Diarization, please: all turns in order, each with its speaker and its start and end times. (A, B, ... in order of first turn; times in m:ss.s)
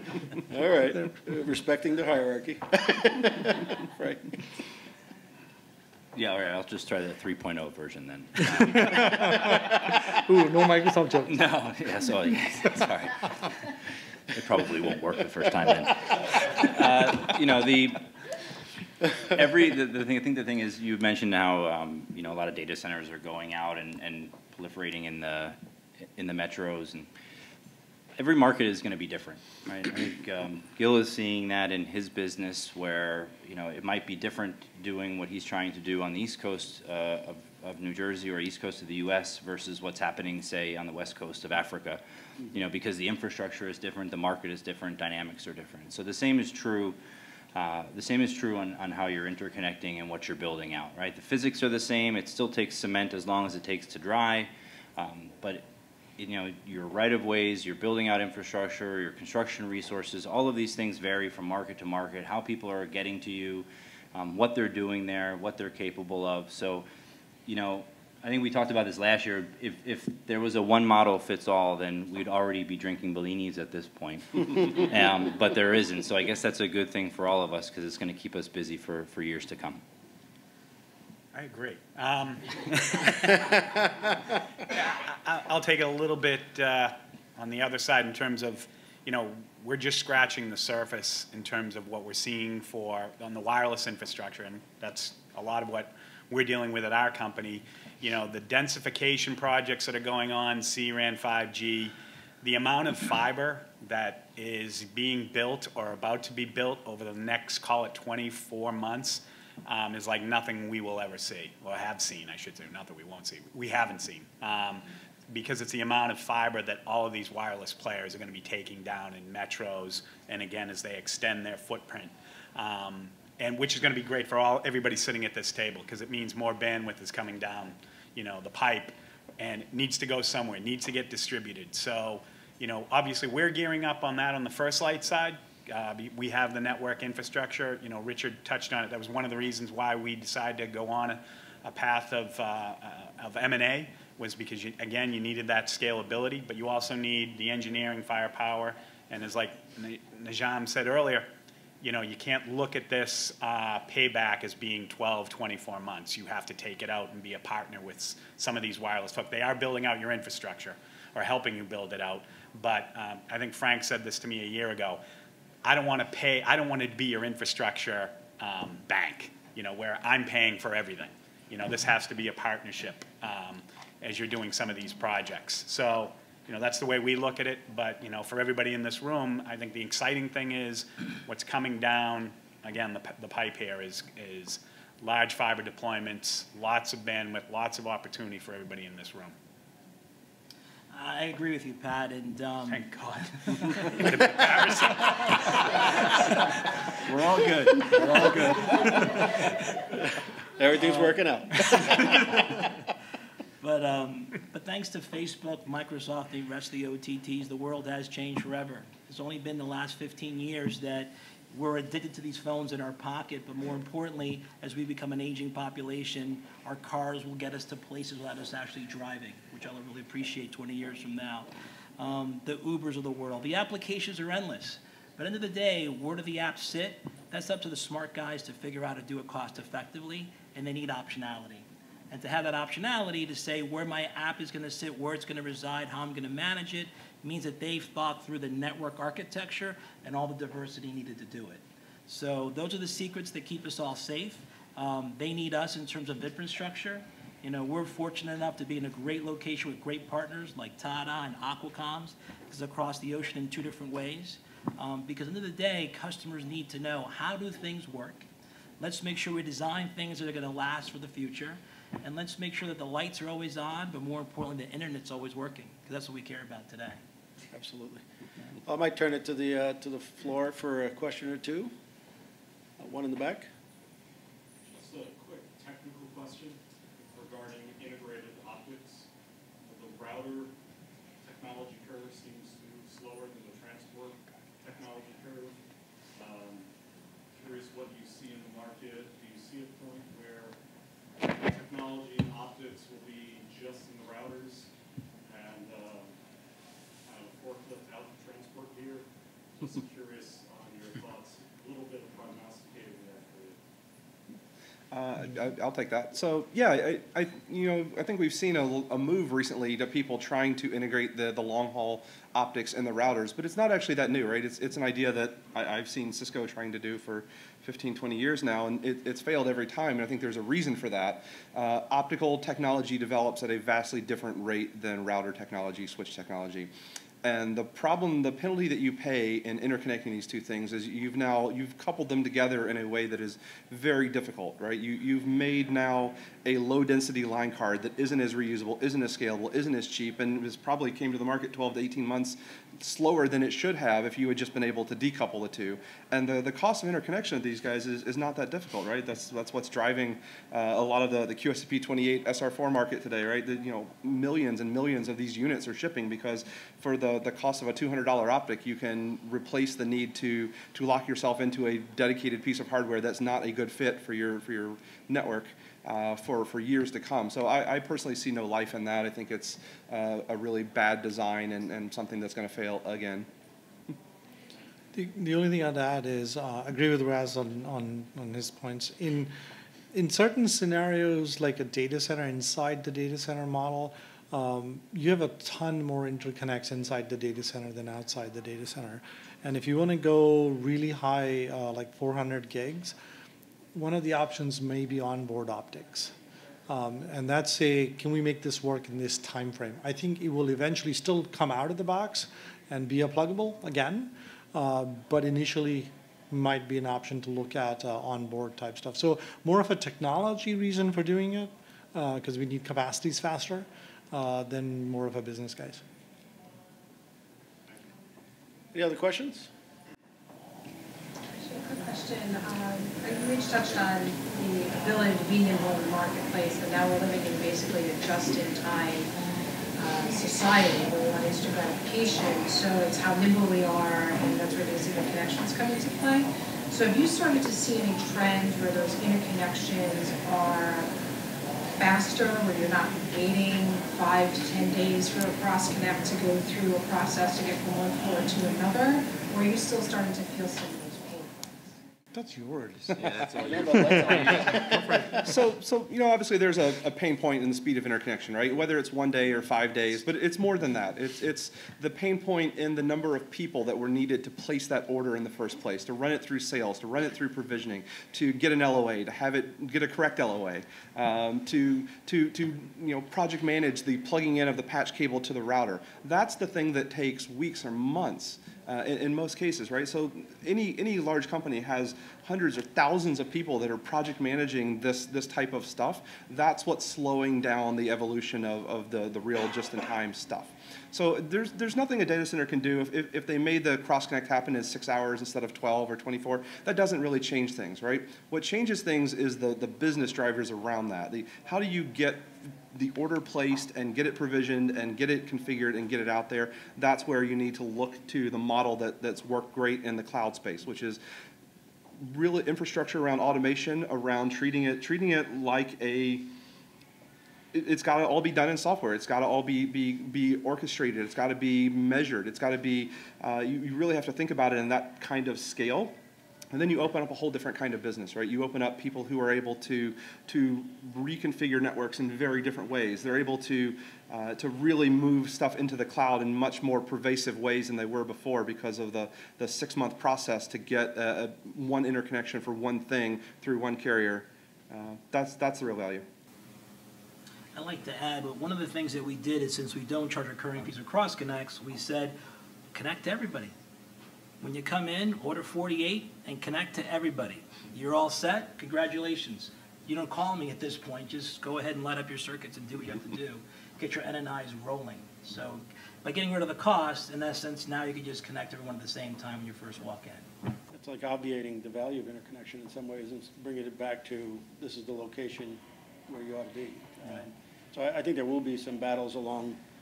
0:00.4-0:04.4 A
0:06.1-0:09.6 B
0:08.5-0:11.3 C
0:11.3-0:13.5 B
0:14.3-0:18.1 B
0:19.3-0:25.6 B
0:26.1-0:27.1 B
0:28.2-0:47.0 B
0:47.5-1:06.9 B
1:07.5-1:19.8 B
1:21.3-1:23.7 D
1:24.6-2:31.3 D
2:31.8-2:45.0 D
2:45.6-3:09.4 D
3:10.9-3:12.9 E
3:12.7-3:16.5 D
3:17.1-3:19.3 E
3:17.1-3:19.5 A
3:20.0-3:22.6 A
3:20.8-3:22.2 E
3:23.6-4:18.3 E
4:18.8-4:27.0 E
4:27.5-4:28.0 A
4:28.6-4:31.7 A
4:32.8-4:33.5 A
4:34.6-4:39.1 F
4:39.6-4:40.5 F
4:41.2-4:45.6 F
4:46.1-4:46.7 F
4:47.4-4:50.6 F
4:51.2-4:54.7 F
4:55.2-4:56.1 F
4:57.1-4:59.1 F
4:59.6-5:03.6 F
5:04.9-5:26.7 G
5:27.2-6:13.3 G
6:14.9-6:19.3 C
6:19.9-6:32.9 C
6:33.7-6:36.1 C
6:36.7-6:55.8 C
6:58.7-6:59.5 A
7:01.3-7:09.1 H
7:09.8-7:20.9 H
7:21.7-7:31.5 H
7:32.1-7:33.1 C
7:32.9-7:34.6 B
7:33.4-7:35.0 A
7:34.1-7:35.2 C
7:35.2-8:31.0 G
8:32.0-8:36.3 G
8:37.5-8:45.9 G
8:46.5-9:06.1 G
9:07.5-9:12.2 E
9:12.7-9:13.5 E
9:14.4-9:30.3 E
9:30.7-9:39.6 A